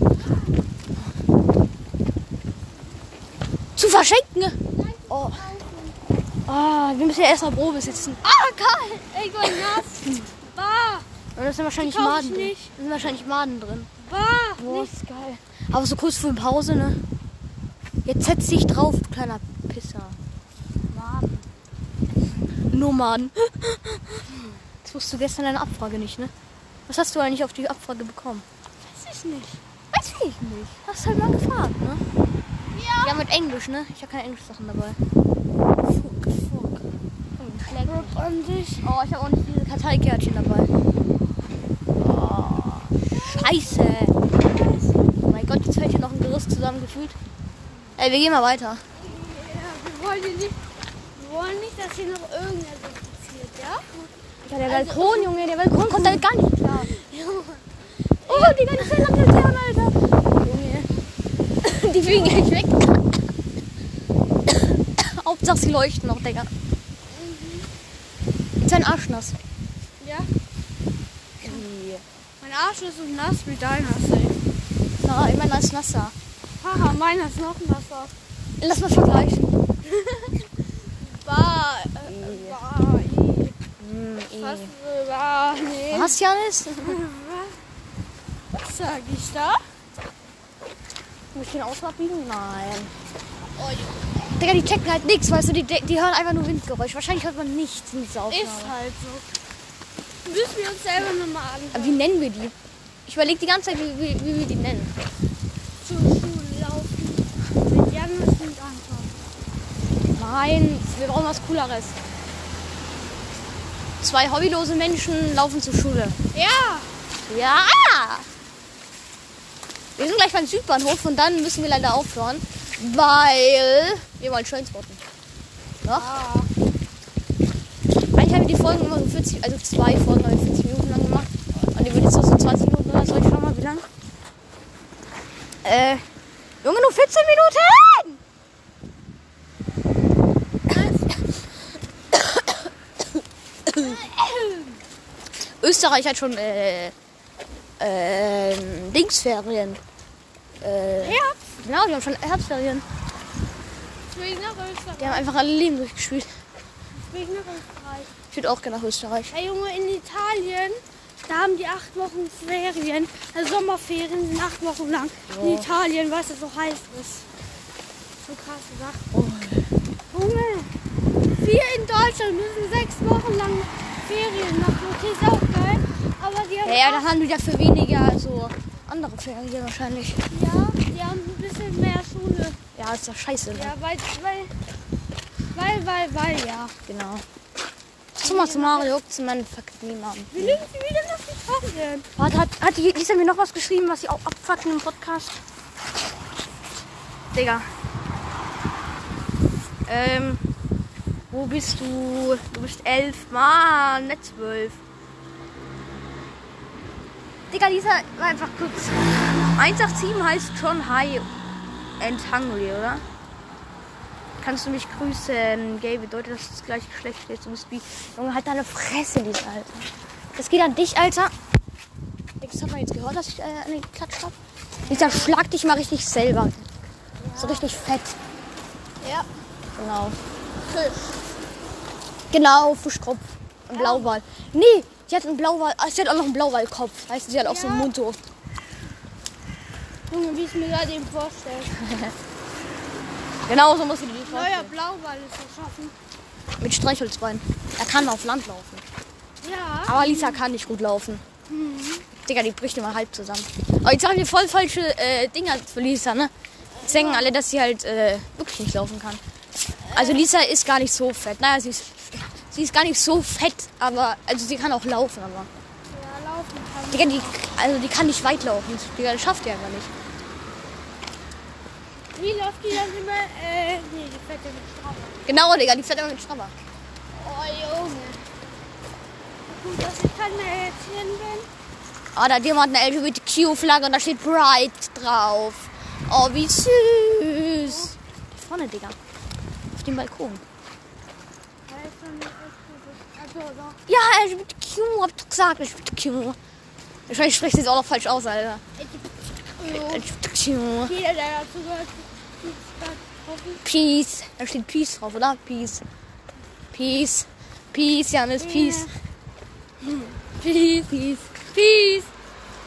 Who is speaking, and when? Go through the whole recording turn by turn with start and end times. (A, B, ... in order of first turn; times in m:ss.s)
0:00.2-0:00.5 A
0:03.8-0:04.6 B
0:04.7-0:06.0 A
0:05.1-0:05.4 B
0:06.5-0:08.2 B
0:08.2-0:11.1 A
0:11.4-0:13.9 B
0:11.8-0:12.7 A
0:14.0-0:14.9 A
0:14.6-0:17.0 B
0:18.0-0:20.2 B
0:20.9-0:21.5 A
0:22.7-0:24.2 B
0:24.8-0:26.3 B
0:26.9-0:28.4 B
0:28.8-0:29.6 A
0:29.9-0:32.0 B
0:32.7-0:33.2 A
0:33.0-0:35.0 B
0:35.8-0:37.0 A
0:37.4-0:38.2 B
0:37.8-0:38.9 A
0:38.8-0:40.7 B
0:42.0-0:44.1 B
0:43.1-0:45.2 A
0:45.2-0:47.2 B
0:48.0-0:48.8 B
0:49.0-0:50.6 A
0:51.2-0:54.1 A
0:54.4-0:56.9 B
0:54.6-0:59.1 A
0:58.2-1:00.9 B
1:01.6-1:03.0 B
1:02.1-1:02.4 A
1:04.5-1:06.5 B
1:07.1-1:07.7 A
1:08.6-1:09.4 B
1:10.0-1:10.3 A
1:11.4-1:12.0 B
1:12.4-1:14.4 A
1:15.0-1:16.1 B
1:16.6-1:18.1 A
1:18.6-1:19.6 B
1:19.8-1:23.6 A
1:22.0-1:22.6 B
1:23.8-1:24.7 B
1:24.4-1:26.2 A
1:25.9-1:27.0 B
1:26.8-1:27.6 A
1:28.5-1:29.6 A
1:31.3-1:32.9 B
1:33.6-1:34.1 A
1:34.4-1:38.7 B
1:38.3-1:39.3 A
1:40.2-1:42.0 A
1:41.7-1:42.5 B
1:43.0-1:44.9 B
1:45.8-1:49.1 A
1:50.2-1:52.0 B
1:54.0-1:56.2 B
1:56.3-1:56.9 A
1:57.2-1:58.2 B
2:00.0-2:05.0 B
2:05.8-2:06.1 B
2:05.9-2:06.5 A
2:08.1-2:13.8 B
2:15.6-2:16.0 B
2:16.6-2:18.2 B
2:20.7-2:21.2 A
2:22.1-2:22.5 B
2:23.7-2:24.0 B
2:23.8-2:24.8 A
2:25.6-2:26.9 B
2:27.8-2:29.8 B
2:30.6-2:32.8 B
2:31.0-2:31.5 A
2:34.1-2:35.3 A
2:35.0-2:36.3 B
2:37.0-2:38.1 A
2:38.3-2:39.3 B
2:39.3-2:47.3 A
2:45.3-2:45.7 B
2:48.2-2:49.0 A
2:49.1-2:49.7 B
2:50.1-2:50.7 A
2:51.3-2:57.0 A
2:56.6-3:00.2 B
3:00.3-3:02.6 A
3:02.8-3:03.7 B
3:03.5-3:04.5 A
3:05.5-3:06.7 A
3:06.9-3:07.2 B
3:08.2-3:10.6 B
3:08.2-3:08.9 A
3:10.3-3:12.1 A
3:12.2-3:15.4 B
3:17.3-3:17.6 B
3:19.9-3:20.4 B
3:21.3-3:24.8 B
3:27.5-3:31.3 B
3:32.0-3:33.0 B
3:34.4-3:41.3 B
3:42.4-3:44.3 B
3:44.9-3:45.4 A
3:44.9-3:46.7 B
3:47.2-3:47.7 A
3:47.4-3:48.2 B
3:49.0-3:49.3 A
3:49.8-3:50.2 B
3:52.3-3:58.2 B
3:53.7-3:54.2 A
3:57.4-3:57.9 A
4:00.1-4:01.7 A
4:01.8-4:02.1 B
4:03.5-4:04.7 B
4:04.3-4:05.9 A
4:06.6-4:08.8 B
4:09.4-4:10.4 A
4:09.9-4:11.2 B
4:11.5-4:12.1 A
4:12.1-4:16.3 B
4:16.8-4:17.3 A
4:16.8-4:19.2 B
4:19.8-4:20.2 A
4:19.9-4:25.5 B
4:25.9-4:27.4 A
4:26.9-4:29.9 B
4:32.1-4:35.3 A
4:35.2-4:36.5 B
4:37.1-4:38.2 A
4:39.5-4:41.5 A
4:42.1-4:49.0 B
4:47.6-4:47.9 A
4:49.7-4:50.4 B
4:51.7-4:53.8 A
4:53.9-4:56.4 B
4:57.1-4:58.6 B
4:58.8-5:00.1 A
4:59.7-5:00.9 B
5:00.8-5:03.6 A
5:03.6-5:05.8 B
5:06.7-5:08.9 B
5:08.4-5:08.9 A
5:10.4-5:12.0 B
5:11.6-5:12.0 A